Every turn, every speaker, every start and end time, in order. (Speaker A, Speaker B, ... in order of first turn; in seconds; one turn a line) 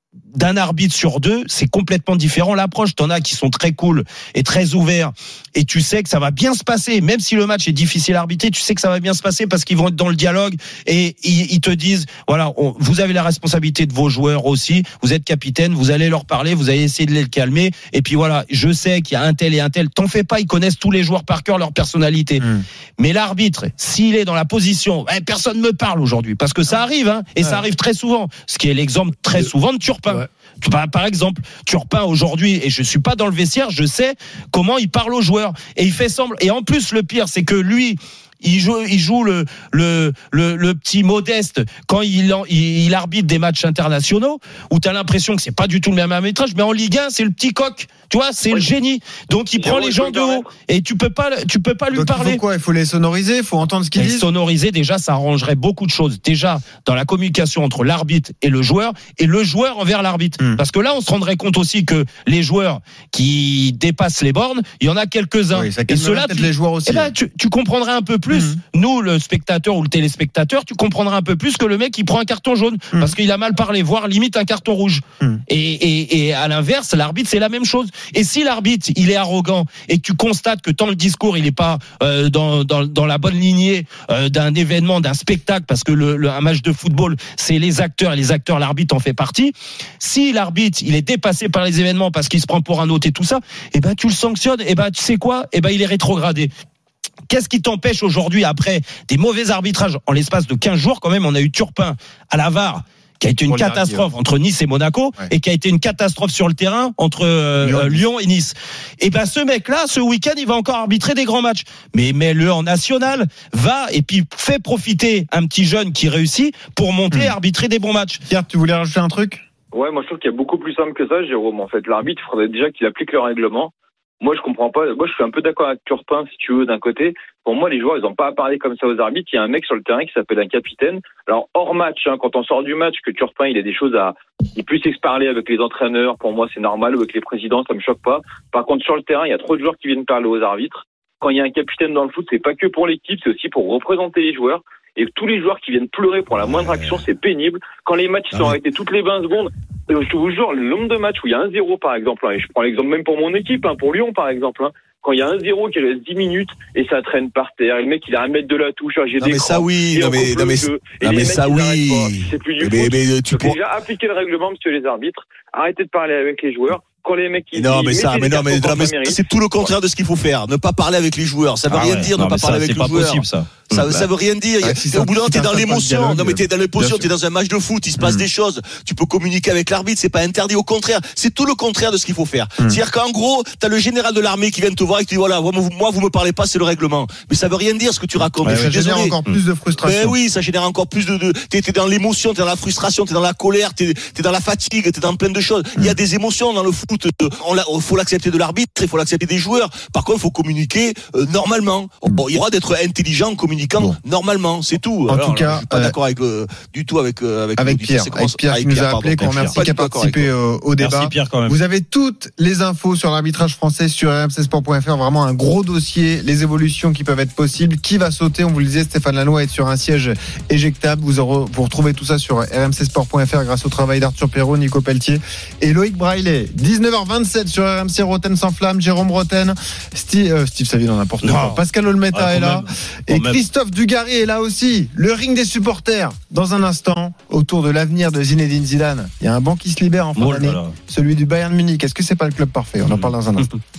Speaker A: 0.3-22.5
Speaker B: 22.4-22.6
Speaker A: 23.0-52.4
Speaker C: 49.6-50.5
Speaker B: 51.9-54.3
Speaker A: 54.0-96.5
Speaker B: 65.5-67.1
Speaker B: 68.3-68.6
Speaker A: 97.3-118.2
Speaker B: 103.5-104.1
Speaker B: 107.6-108.0
Speaker B: 118.3-119.4
Speaker C: 119.7-169.2
Speaker D: 146.3-147.0
Speaker D: 148.3-148.6
Speaker D: 159.2-163.6
Speaker D: 167.5-189.1
Speaker A: 171.7-174.1
Speaker B: 174.6-177.1
Speaker B: 178.0-178.2
Speaker B: 188.4-190.2
Speaker D: 189.8-210.3
Speaker B: 205.1-205.9
Speaker B: 207.6-243.5
Speaker A: 209.2-209.6
Speaker A: 210.8-211.6
Speaker A: 231.2-231.6
Speaker A: 232.1-233.4
Speaker A: 240.2-240.8
Speaker A: 242.9-243.6